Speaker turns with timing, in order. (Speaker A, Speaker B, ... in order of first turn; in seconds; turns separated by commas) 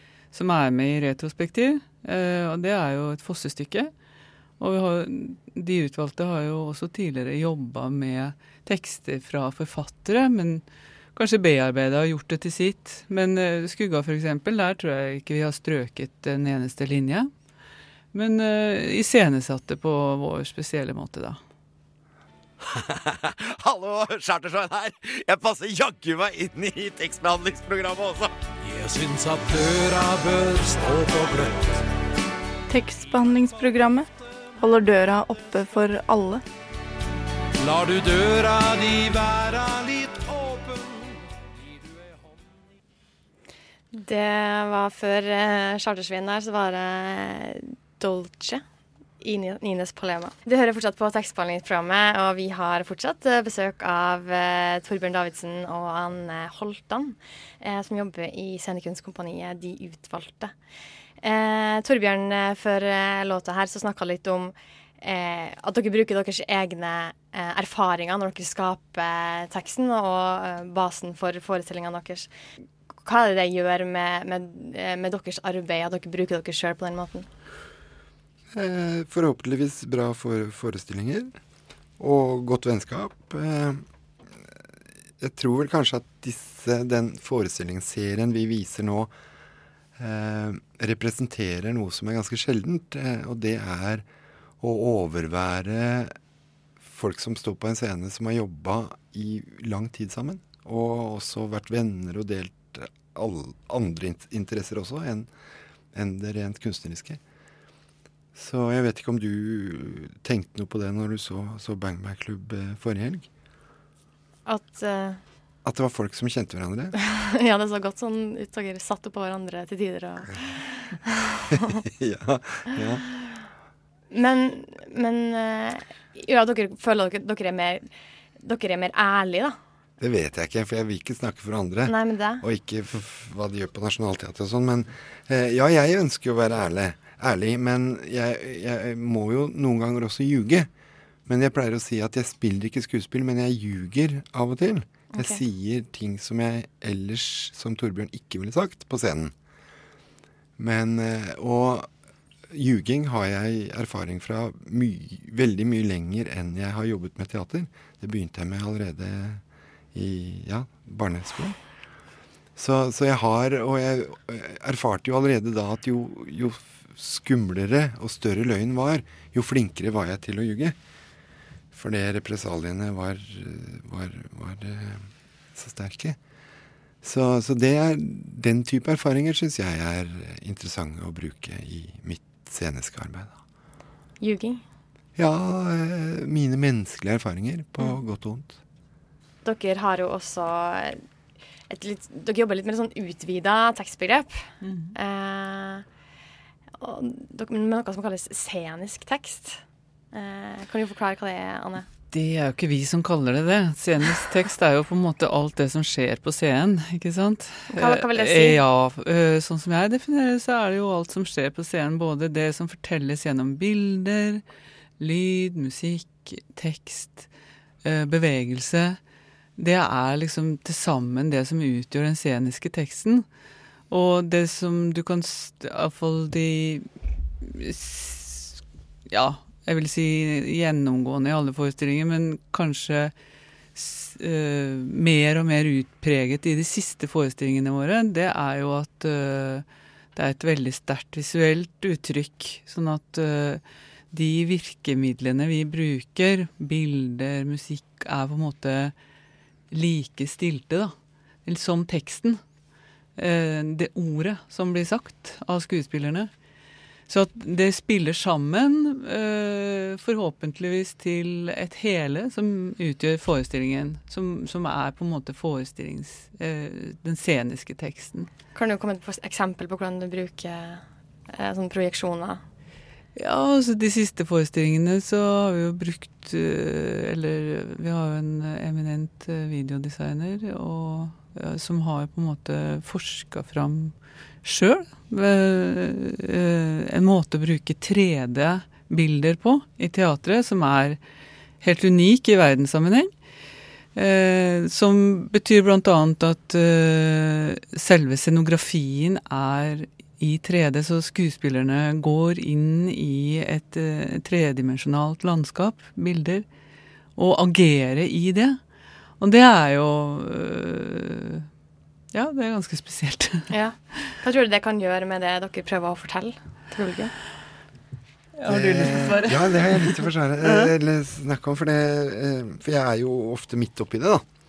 Speaker A: 0.3-3.9, Speaker A: 4.6-10.6, Speaker A: 11.1-17.3, Speaker A: 18.1-21.4, Speaker B: 22.7-28.3, Speaker C: 28.6-31.8, Speaker D: 32.7-36.4, Speaker C: 37.6-41.2, Speaker E: 43.9-48.6, Speaker E: 49.2-60.5, Speaker E: 61.2-72.3, Speaker E: 73.0-77.3, Speaker F: 78.5-81.3, Speaker F: 82.0-83.8, Speaker F: 85.2-89.1, Speaker F: 90.0-94.0, Speaker F: 94.6-96.1, Speaker F: 96.8-105.3, Speaker F: 105.9-107.2, Speaker F: 108.3-113.3, Speaker E: 114.5-115.2, Speaker F: 115.6-116.9, Speaker E: 117.0-121.8, Speaker F: 121.8-123.0, Speaker E: 124.1-127.8, Speaker E: 128.4-129.6, Speaker F: 130.0-140.7, Speaker E: 131.8-132.4, Speaker F: 141.2-149.3, Speaker E: 145.1-145.4, Speaker F: 150.6-151.9, Speaker F: 152.5-159.4, Speaker F: 159.9-161.6, Speaker F: 162.6-170.8, Speaker F: 171.7-176.2, Speaker F: 177.0-183.4, Speaker E: 184.2-184.6, Speaker F: 185.2-188.6, Speaker E: 189.4-191.0, Speaker E: 191.7-195.8, Speaker A: 194.6-194.9, Speaker E: 196.8-199.6, Speaker E: 200.1-201.8, Speaker A: 202.1-214.4, Speaker E: 207.7-208.6, Speaker A: 215.0-217.3, Speaker A: 217.8-219.0, Speaker A: 219.6-223.2, Speaker A: 223.9-226.9, Speaker A: 227.4-233.1, Speaker A: 233.7-248.9, Speaker A: 249.7-250.9, Speaker A: 251.4-252.4, Speaker A: 253.2-256.3, Speaker A: 257.1-268.3, Speaker E: 268.5-272.4, Speaker A: 273.1-291.0, Speaker A: 291.6-293.1, Speaker A: 293.9-306.4, Speaker A: 307.1-308.6, Speaker A: 309.2-311.5, Speaker A: 312.1-313.5, Speaker E: 313.5-317.1, Speaker A: 318.4-320.7, Speaker F: 318.5-324.2